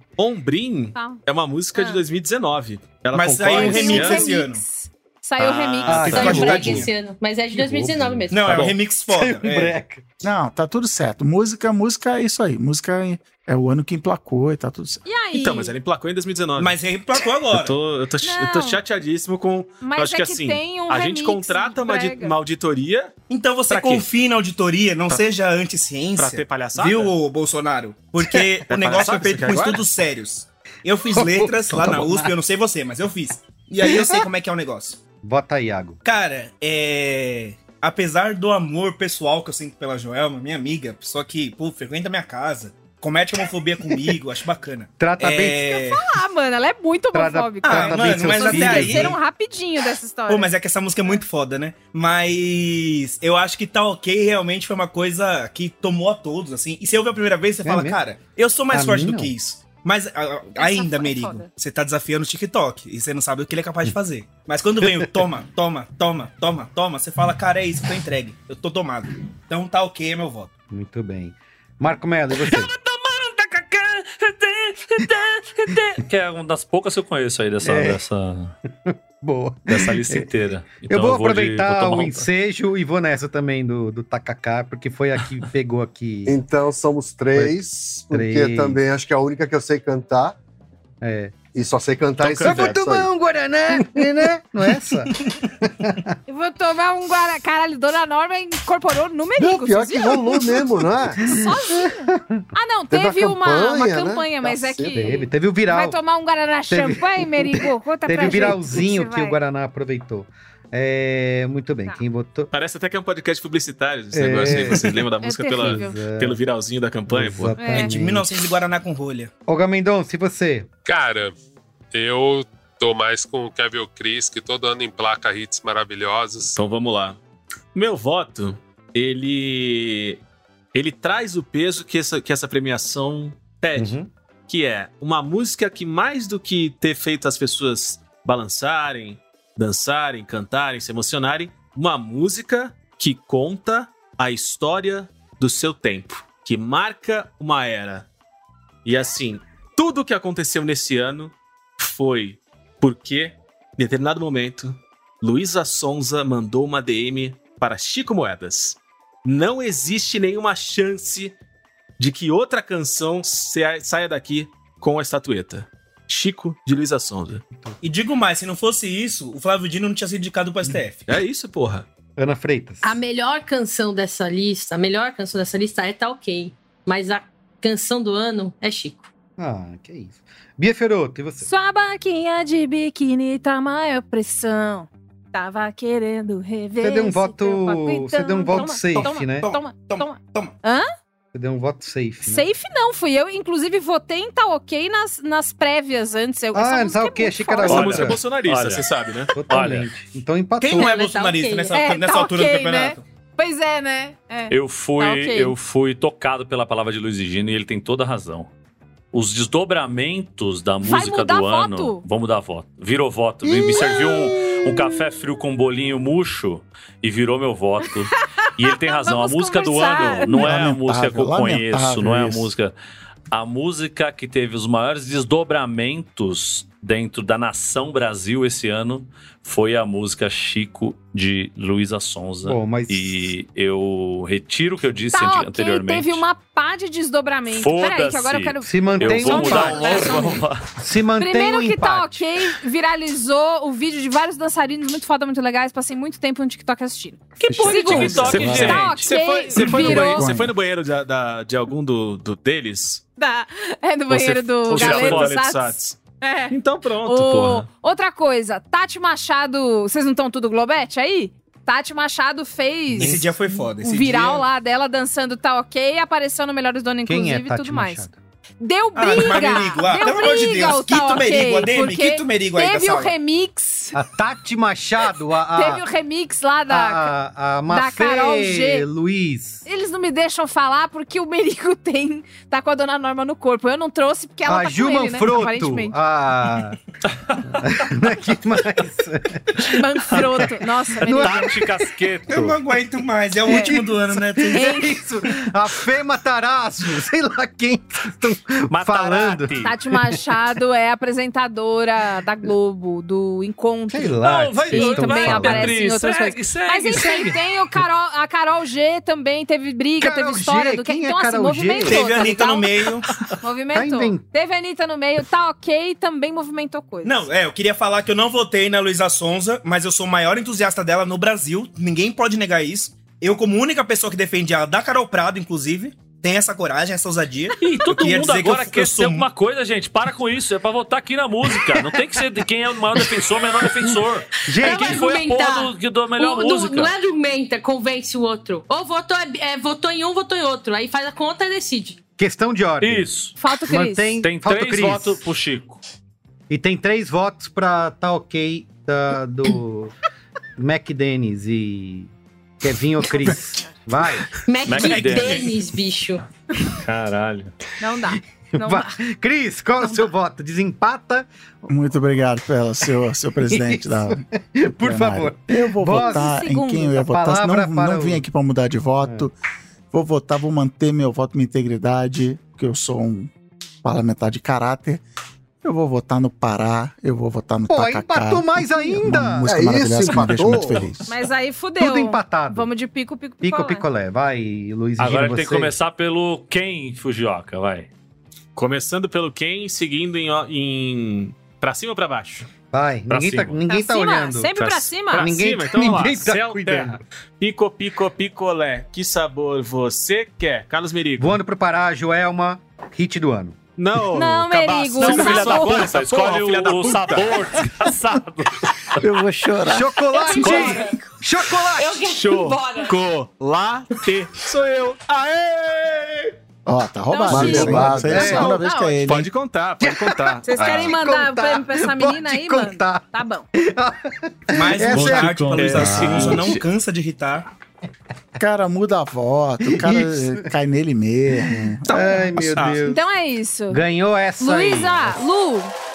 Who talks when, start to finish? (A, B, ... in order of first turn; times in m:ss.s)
0:00.2-0:04.4 A
0:01.0-0:01.2 B
0:01.8-0:02.0 B
0:03.1-0:04.6 C
0:03.5-0:06.6 B
0:05.4-0:06.8 A
0:05.9-0:06.9 D
0:06.0-0:06.9 C
0:06.2-0:08.7 E
0:07.5-0:08.5 D
0:08.3-0:09.8 C
0:08.5-0:08.8 A
0:09.1-0:10.0 D
0:10.2-0:15.0 F
0:15.0-0:15.7 B
0:15.3-0:16.8 A
0:16.6-0:17.7 C
0:17.5-0:23.1 A
0:18.2-0:18.8 B
0:19.8-0:22.4 B
0:23.3-0:35.0 C
0:23.7-0:24.1 A
0:26.2-0:27.1 A
0:28.7-0:29.8 A
0:31.1-0:32.3 D
0:33.8-0:34.2 D
0:35.2-0:36.0 D
0:36.0-0:46.0 C
0:45.0-0:45.7 D
0:45.7-0:50.5 B
0:47.1-0:49.2 D
0:47.6-0:49.2 C
0:50.3-1:10.5 C
0:57.6-0:58.0 D
0:58.7-0:59.3 D
1:00.6-1:01.5 B
1:04.8-1:05.3 D
1:10.7-1:12.7 D
1:12.5-1:18.6 G
1:17.6-1:18.0 D
1:18.8-1:20.3 D
1:19.7-1:22.3 G
1:20.9-1:26.4 D
1:26.3-1:30.4 H
1:28.1-1:28.8 D
1:31.0-1:31.4 D
1:31.5-1:33.1 H
1:32.4-1:35.1 D
1:35.8-1:36.1 D
1:36.3-1:49.4 B
1:39.4-1:41.4 H
1:42.9-1:45.2 H
1:45.0-1:46.0 D
1:46.7-1:52.5 D
1:52.5-1:57.8 A
1:54.1-1:54.8 D
1:55.2-1:56.0 B
1:55.6-1:56.4 D
1:57.1-1:58.3 D
1:57.6-1:58.0 B
1:57.8-1:59.3 C
1:59.5-2:00.7 D
2:00.9-2:01.3 I
2:01.9-2:06.6 I
2:06.6-2:07.2 A
2:07.7-2:10.2 A
2:10.7-2:28.1 A
2:13.8-2:14.1 D
2:28.8-2:41.4 A
2:42.0-2:47.4 A
2:47.8-2:51.1 C
2:51.1-2:51.9 A
2:52.2-2:53.0 D
2:52.8-2:59.1 E
2:59.4-3:01.5 D
3:01.4-3:10.9 B
3:06.8-3:09.5 D
3:08.6-3:10.6 C
3:11.3-3:12.5 D
3:12.3-3:18.0 B
3:16.5-3:18.2 D
3:17.7-3:19.3 A
3:17.7-3:18.9 G
3:19.4-3:21.0 D
3:19.5-3:19.9 G
3:20.6-3:23.0 C
3:20.7-3:21.8 E
3:21.7-3:25.5 B
3:24.5-3:28.5 G
3:29.1-3:42.7 G
3:30.8-3:32.0 B
3:33.7-3:34.0 B
3:38.6-3:40.5 B
3:40.4-3:42.5 F
3:43.3-3:56.3 G
3:52.4-3:53.3 D
3:55.1-4:00.4 B
3:57.5-4:00.6 G
3:58.6-4:00.2 D
4:00.8-4:02.1 D
4:01.2-4:10.3 B
4:07.4-4:09.1 G
4:07.4-4:08.4 D
4:07.7-4:13.0 A
4:09.7-4:10.5 F
4:13.2-4:28.1 B
4:14.1-4:16.0 A
4:14.7-4:15.4 G
4:16.5-4:17.7 A
4:22.9-4:23.2 D
4:23.0-4:24.5 C
4:27.1-4:28.2 D
4:28.6-4:34.0 B
4:29.0-4:33.2 C
4:33.9-4:35.8 D
4:35.6-4:37.1 B
4:36.7-4:39.6 D
4:37.7-4:38.9 B
4:39.7-4:46.0 B
4:44.5-4:46.8 D
4:47.6-4:51.5 D
4:49.6-4:51.6 B
4:51.2-4:52.6 G
4:52.3-4:54.8 C
4:53.5-5:00.2 D
4:54.5-4:54.9 B
4:58.7-4:59.7 G
4:59.6-5:04.2 B
5:03.9-5:05.8 D
5:04.2-5:07.4 G
5:04.7-5:12.8 B
5:10.0-5:12.3 D
5:11.9-5:13.1 C
5:13.4-5:17.3 B
5:13.7-5:14.2 D
5:17.0-5:29.3 C
5:27.6-5:36.9 G
5:34.5-5:35.0 D
5:34.6-5:42.0 E
5:42.2-5:43.1 D
5:42.8-5:43.4 G
5:43.4-5:44.2 B
5:43.7-5:45.2 D
5:44.2-5:45.8 G
5:46.5-5:49.9 D
5:50.6-5:54.3 D
5:54.5-5:56.2 E
5:54.7-5:55.5 G
5:56.8-5:57.5 G
5:57.8-5:59.0 B
5:58.1-6:01.3 D
5:59.8-6:00.1 B
6:01.7-6:04.2 F
6:03.5-6:06.4 D
6:04.8-6:09.3 F
6:05.9-6:07.0 B
6:07.0-6:08.2 D
6:09.0-6:09.3 D
6:09.9-6:13.3 F
6:13.8-6:15.0 F
6:15.6-6:21.1 F
6:17.7-6:20.6 D
6:19.4-6:20.9 H
6:21.1-6:23.8 B
6:21.8-6:22.7 D
6:23.4-6:25.7 D
6:25.0-6:27.9 G
6:28.6-6:32.5 A
6:32.7-6:34.5 D
6:33.1-6:33.6 G
6:33.7-6:35.3 B
6:34.6-6:41.4 A
6:35.1-6:37.0 D
6:41.2-6:43.6 D
6:43.8-6:47.5 A
6:44.1-6:45.9 B
6:45.0-6:48.6 G
6:49.0-6:50.0 F
6:49.7-6:52.0 D
6:50.1-6:50.8 E
6:50.4-6:50.8 G
6:51.8-6:53.0 E
6:52.0-6:56.3 A
6:56.7-6:59.3 F
6:57.1-6:59.0 B
6:57.3-6:58.3 H
6:57.6-6:58.5 D
6:59.0-7:01.0 A
6:59.8-7:06.5 D
7:00.4-7:03.5 B
7:04.5-7:07.5 C
7:04.9-7:06.4 G
7:06.0-7:06.4 A
7:08.4-7:11.9 F
7:09.6-7:10.5 D
7:11.4-7:13.0 D
7:11.9-7:12.8 C
7:12.8-7:13.8 B
7:13.7-7:15.2 D
7:14.4-7:15.7 B